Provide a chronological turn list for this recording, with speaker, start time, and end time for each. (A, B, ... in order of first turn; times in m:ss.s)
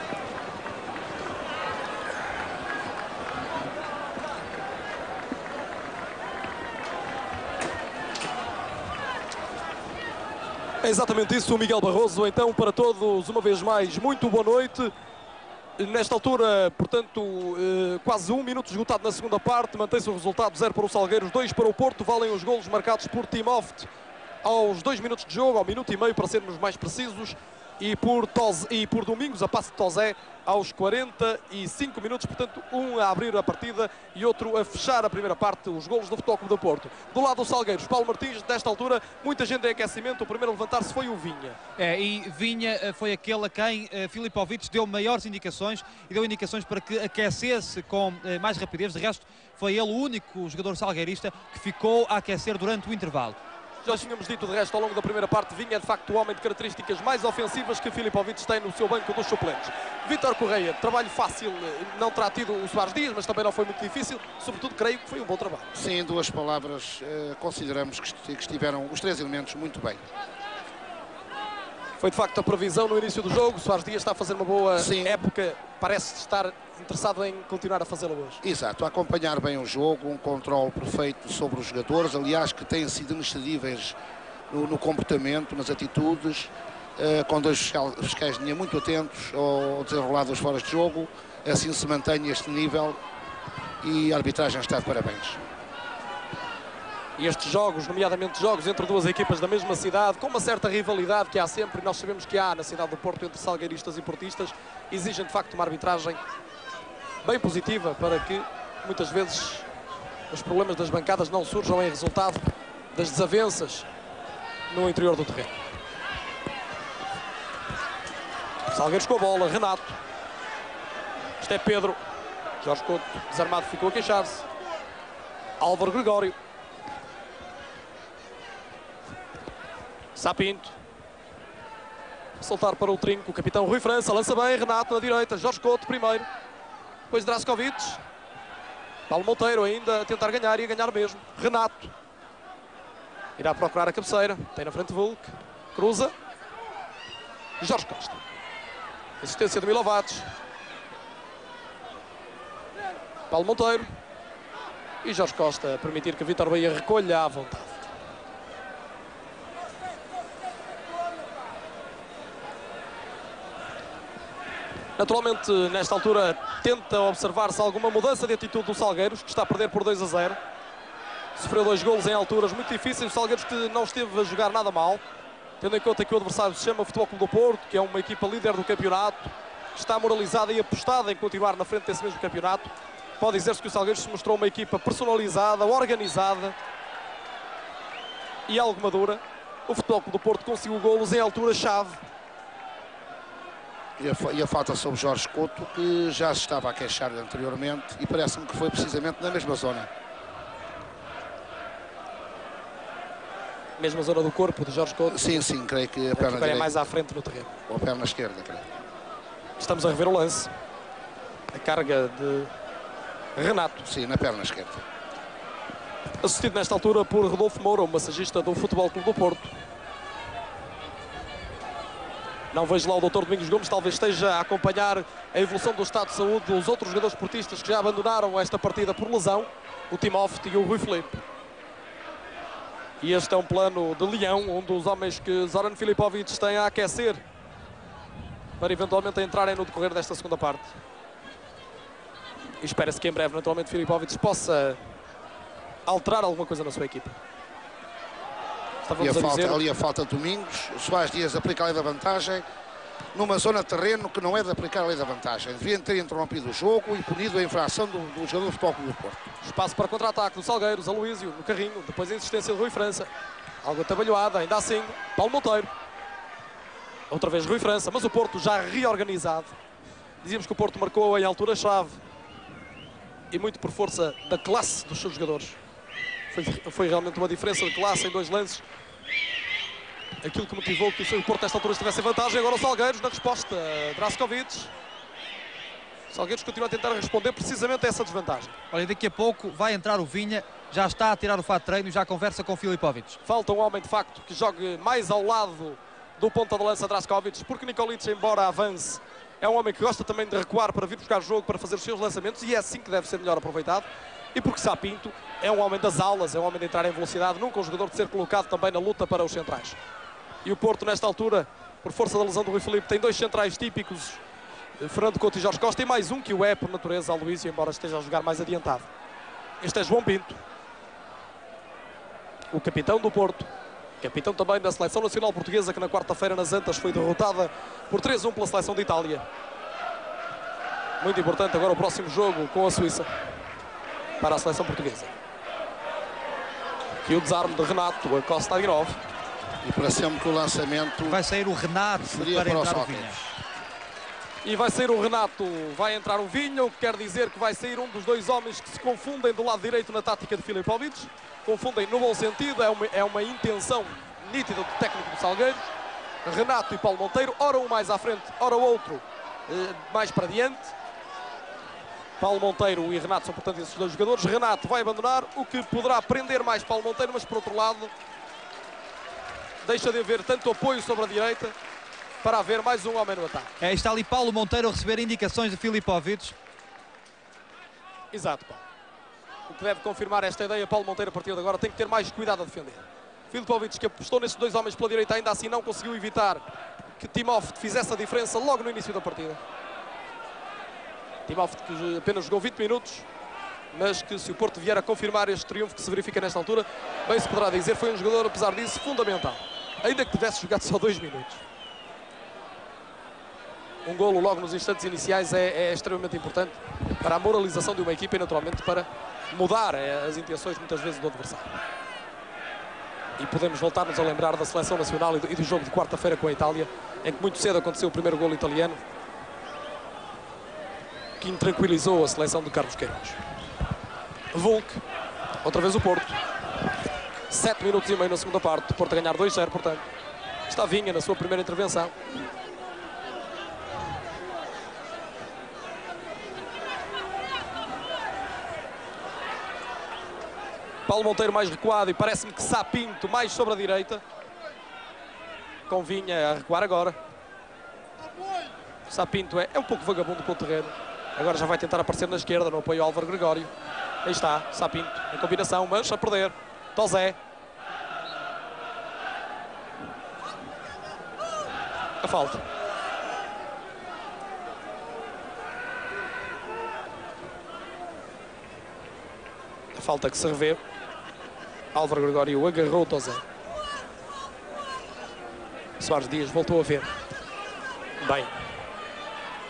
0:10.8-0:14.9 A
0:15.8-0:23.9 A
0:24.4-0:41.6 A
0:41.8-0:53.4 B
0:53.8-1:05.7 A
1:05.7-1:10.0 C
1:12.0-1:18.4 A
1:14.8-1:15.2 C
1:18.4-1:24.0 C
1:24.5-1:33.0 C
1:33.8-1:35.4 C
1:37.2-1:46.2 A
1:47.2-1:49.7 A
1:50.3-1:53.9 A
1:54.7-1:55.6 A
1:58.7-2:00.0 A
2:01.4-2:02.0 A
2:02.6-2:04.4 A
2:05.6-2:06.4 A
2:10.1-2:10.7 A
2:12.4-2:16.3 A
2:17.1-2:18.0 A
2:19.1-2:21.9 A
2:23.4-2:26.1 A
2:27.6-2:28.2 A
2:29.2-2:30.3 A
2:33.3-2:33.9 A
2:35.0-2:37.8 A
2:45.0-2:50.4 A
2:51.4-2:55.0 A
2:55.6-3:06.6 A
3:08.5-3:12.0 A
3:14.0-3:19.9 C
3:23.8-3:25.4 A
3:25.1-3:26.8 C
3:26.1-3:27.6 A
3:27.7-3:28.6 C
3:29.6-3:30.5 A
3:31.5-3:32.5 A
3:33.4-3:33.8 A
3:33.8-3:34.8 C
3:36.2-3:39.5 A
3:42.5-3:51.2 A
3:53.0-3:57.2 A
3:58.6-4:00.7 A
4:02.6-4:04.8 A
4:05.9-4:07.2 A
4:08.8-4:09.6 A
4:09.0-4:12.4 C
4:13.1-4:19.3 C
4:19.4-4:23.1 A
4:23.6-4:25.7 A
4:27.1-4:29.6 A
4:30.2-4:32.0 A
4:33.3-4:35.6 A
4:36.3-4:38.6 A
4:40.2-4:44.7 A
4:46.1-4:48.5 A
4:48.7-4:53.2 B
4:53.2-5:09.8 A
5:10.4-5:14.2 A
5:14.8-5:18.9 A
5:19.6-5:20.4 A
5:22.5-5:23.5 A
5:24.0-5:29.2 A
5:31.0-5:33.1 A
5:34.2-5:35.1 A
5:37.0-5:39.0 A
5:39.6-5:41.2 C
5:41.1-5:43.2 B
5:42.0-5:43.3 C
5:44.4-5:55.7 A
5:56.2-6:00.7 A
6:02.2-6:07.9 A
6:09.6-6:11.6 A
6:12.2-6:13.6 A
6:13.6-6:16.4 B
6:18.1-6:18.6 A
6:19.5-6:26.4 A
6:27.0-6:29.4 A
6:31.3-6:33.1 A
6:33.7-6:41.4 A
6:43.8-6:51.6 A
6:53.2-6:58.8 A
7:01.2-7:03.2 A
7:04.3-7:04.8 A
7:05.4-7:06.2 A
7:07.3-7:09.8 A
7:10.5-7:11.9 A
7:20.9-7:24.0 A
7:25.7-7:27.0 A
7:28.9-7:33.5 A
7:34.0-7:37.2 A
7:42.0-7:42.4 A
7:49.7-7:50.6 A
7:51.7-7:53.2 A
7:55.8-7:56.9 A
7:58.0-7:58.3 A